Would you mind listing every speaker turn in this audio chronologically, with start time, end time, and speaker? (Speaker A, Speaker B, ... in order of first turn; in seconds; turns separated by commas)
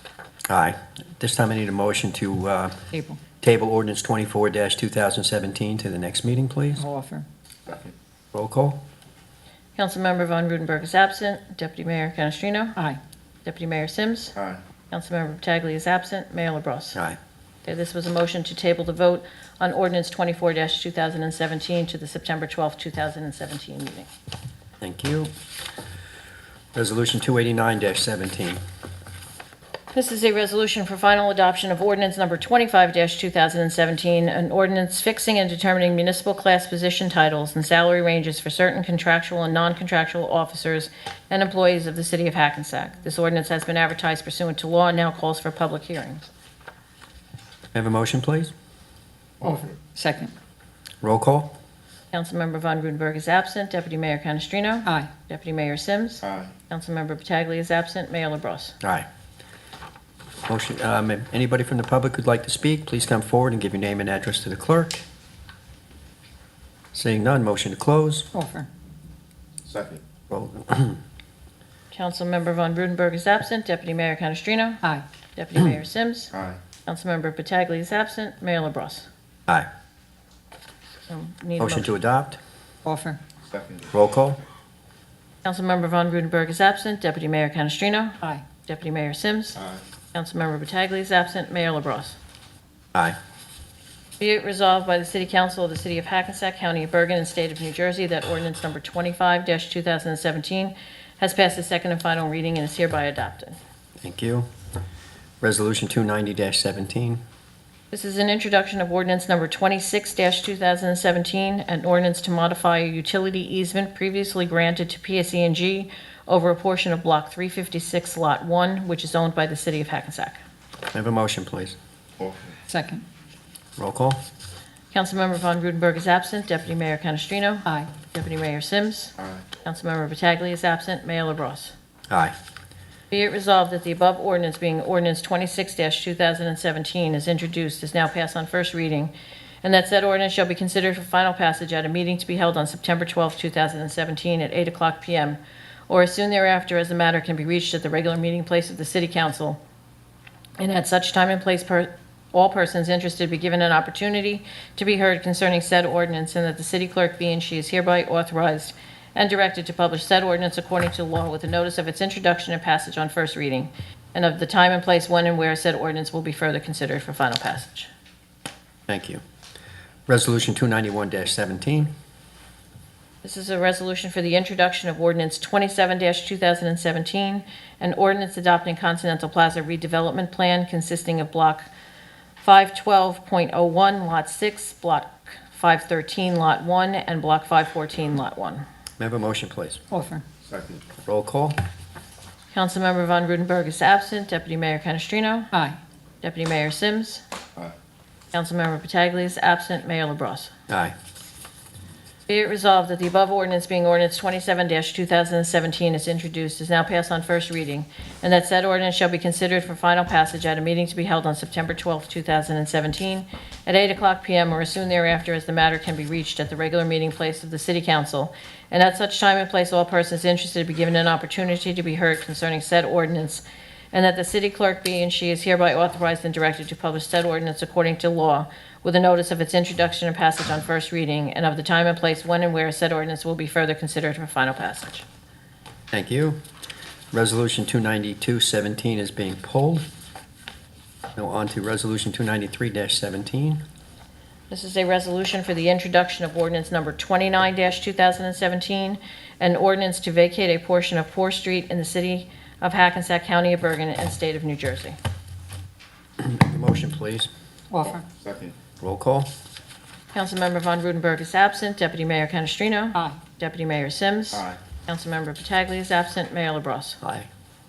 Speaker A: 0.5-2.8, Speaker B: 2.9-3.2, Speaker A: 3.4-6.8, Speaker B: 6.8-7.2, Speaker C: 7.7-7.9, Speaker A: 8.3-8.8, Speaker D: 9.8-12.8, Speaker D: 13.4-14.3, Speaker C: 14.3-14.6, Speaker D: 14.9-17.0, Speaker D: 17.6-24.1, Speaker A: 24.8-25.3, Speaker A: 26.7-28.6, Speaker D: 29.9-46.2, Speaker A: 47.7-48.5, Speaker C: 49.4-49.7, Speaker B: 49.4-50.3, Speaker A: 51.0-51.5, Speaker D: 52.1-58.7, Speaker C: 56.2-56.5, Speaker A: 58.8-59.0, Speaker A: 60.5-65.0, Speaker A: 66.9-68.3, Speaker B: 68.3-68.7, Speaker C: 69.7-70.0, Speaker A: 70.3-71.0, Speaker D: 71.9-74.8, Speaker D: 75.3-76.3, Speaker C: 76.3-76.6, Speaker D: 76.8-79.1, Speaker D: 81.1-81.9, Speaker A: 81.6-82.4, Speaker B: 82.8-83.2, Speaker C: 83.5-83.9, Speaker A: 83.9-84.4, Speaker D: 85.4-89.6, Speaker D: 90.1-92.2, Speaker D: 94.2-103.6, Speaker A: 104.0-104.5, Speaker A: 105.4-107.2, Speaker D: 107.9-120.4, Speaker A: 120.9-121.8, Speaker C: 122.2-122.6, Speaker B: 122.7-123.0, Speaker A: 123.8-124.2, Speaker D: 124.9-131.7, Speaker C: 129.2-129.4, Speaker A: 132.1-132.3, Speaker D: 133.1-139.1, Speaker D: 139.6-149.6, Speaker D: 150.6-167.9, Speaker A: 168.9-169.2, Speaker A: 170.1-171.9, Speaker D: 173.2-181.7, Speaker D: 182.4-188.6, Speaker A: 189.0-189.8, Speaker B: 189.9-190.2, Speaker C: 190.4-190.8, Speaker A: 191.0-191.6, Speaker D: 192.5-195.5, Speaker B: 195.5-195.8, Speaker D: 196.2-197.2, Speaker D: 198.3-200.5, Speaker A: 200.7-200.9, Speaker D: 202.3-235.0, Speaker A: 235.9-236.4, Speaker A: 237.1-239.8, Speaker A: 241.2-243.6, Speaker D: 244.5-255.0, Speaker A: 256.2-257.3, Speaker B: 257.7-258.0, Speaker C: 257.8-258.6, Speaker A: 258.8-259.3, Speaker D: 260.1-267.0, Speaker A: 267.0-267.3